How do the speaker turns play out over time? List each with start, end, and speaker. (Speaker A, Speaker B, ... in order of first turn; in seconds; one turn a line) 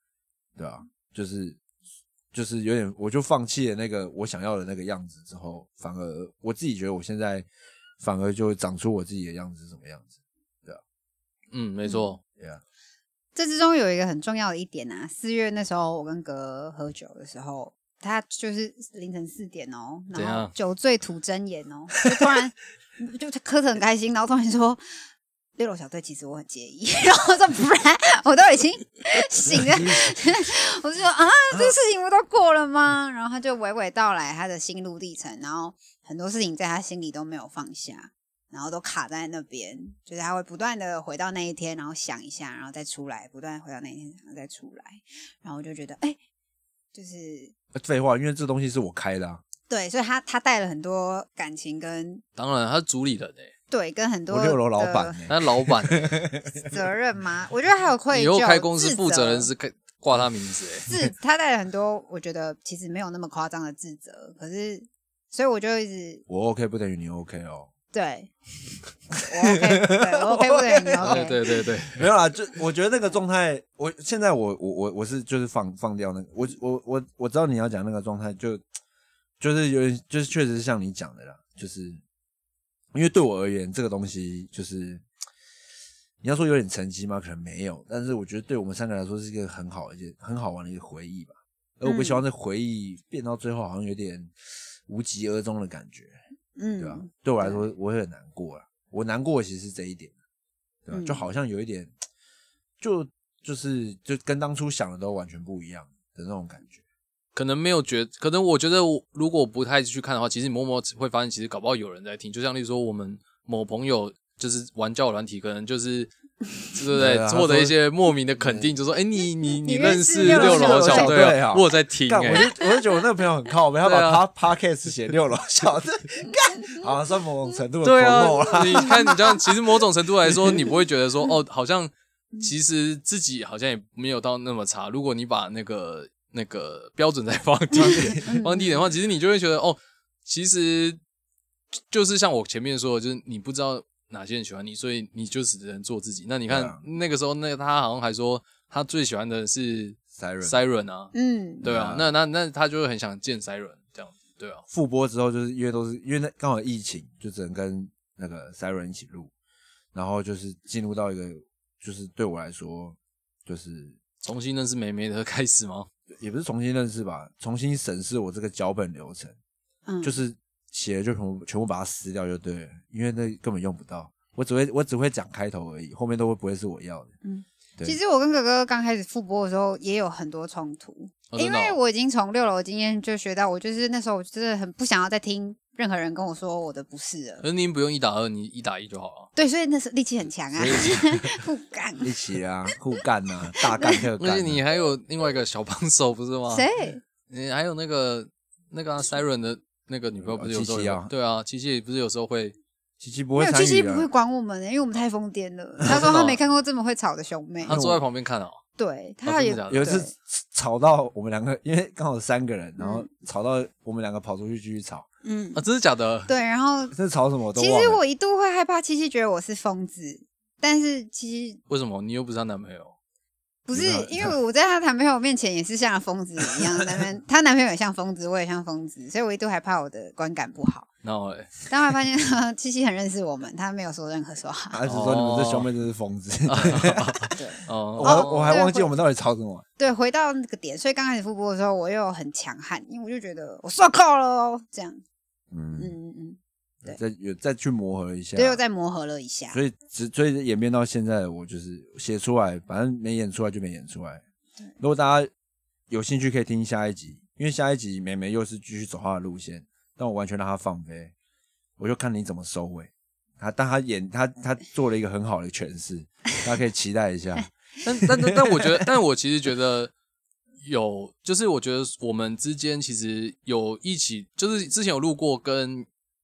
Speaker A: 0.6-1.6
Speaker A: 2.3-7.5
Speaker A: 8.0-10.1
Speaker B: 11.5-12.2
Speaker C: 11.8-12.1
Speaker C: 13.3-24.8
Speaker B: 20.1-20.5
Speaker C: 25.6-46.2
Speaker A: 29.5-30.1
Speaker C: 46.9-47.5
Speaker A: 47.7-49.4
Speaker C: 49.7-52.2
Speaker B: 52.4-53.5
Speaker C: 53.7-55.2
Speaker A: 54.3-56.7
Speaker B: 55.3-56.1
Speaker C: 56.5-59.5
Speaker B: 58.1-60.9
Speaker C: 60.9-66.2
Speaker A: 66.3-67.7
Speaker C: 67.9-68.3
Speaker A: 69.2-78.6
Speaker C: 69.2-71.4
Speaker B: 71.0-72.1
Speaker A: 79.4-82.0
Speaker A: 82.9-85.0
Speaker A: 86.2-94.3
Speaker C: 91.8-92.2
Speaker A: 94.8-96.2
Speaker C: 96.6-97.6
Speaker A: 96.8-100.1
Speaker A: 100.8-101.9
Speaker C: 100.9-101.2
Speaker A: 102.8-106.8
Speaker B: 107.3-116.1
Speaker B: 116.7-122.5
Speaker A: 116.9-117.7
Speaker A: 118.4-118.7
Speaker C: 119.6-121.2
Speaker A: 120.2-129.2
Speaker B: 123.8-124.2
Speaker B: 127.8-141.0
Speaker C: 128.8-129.2
Speaker C: 137.8-138.8
Speaker B: 141.9-151.1
Speaker A: 146.5-146.8
Speaker A: 150.1-150.6
Speaker C: 151.1-151.6
Speaker A: 151.6-152.1
Speaker B: 151.6-154.6
Speaker A: 154.7-159.3
Speaker A: 159.9-164.0
Speaker B: 164.2-165.9
Speaker A: 166.2-169.3
Speaker C: 169.9-170.2
Speaker A: 170.0-177.1
Speaker C: 177.2-187.4
Speaker B: 181.3-181.8
Speaker B: 187.4-189.3
Speaker C: 189.3-192.1
Speaker A: 190.5-191.4
Speaker A: 192.0-194.6
Speaker C: 193.7-194.1
Speaker B: 194.2-196.7
Speaker C: 196.5-197.0
Speaker B: 197.3-202.6
Speaker A: 200.2-201.1
Speaker A: 203.0-204.1
Speaker C: 203.3-207.8
Speaker B: 205.8-206.4
Speaker B: 207.6-208.6
Speaker A: 207.7-208.0
Speaker C: 208.8-210.1
Speaker B: 209.2-209.9
Speaker A: 209.7-215.1
Speaker C: 212.8-213.1
Speaker C: 215.2-215.6
Speaker B: 215.6-216.3
Speaker C: 216.3-216.9
Speaker A: 216.9-218.0
Speaker C: 217.6-221.6
Speaker B: 221.7-222.9
Speaker C: 223.7-230.9
Speaker A: 223.7-224.3
Speaker B: 231.0-231.6
Speaker C: 231.7-234.8
Speaker A: 234.7-237.4
Speaker B: 234.9-235.7
Speaker B: 236.5-238.6
Speaker C: 237.4-238.9
Speaker A: 237.9-239.6
Speaker C: 239.8-245.0
Speaker A: 245.5-245.9
Speaker C: 245.8-247.0
Speaker A: 246.8-248.6
Speaker C: 248.3-249.6
Speaker A: 249.5-254.2
Speaker A: 254.8-255.3
Speaker A: 255.9-261.1
Speaker A: 261.8-267.5
Speaker B: 267.8-269.9
Speaker A: 268.0-268.8
Speaker B: 270.6-275.9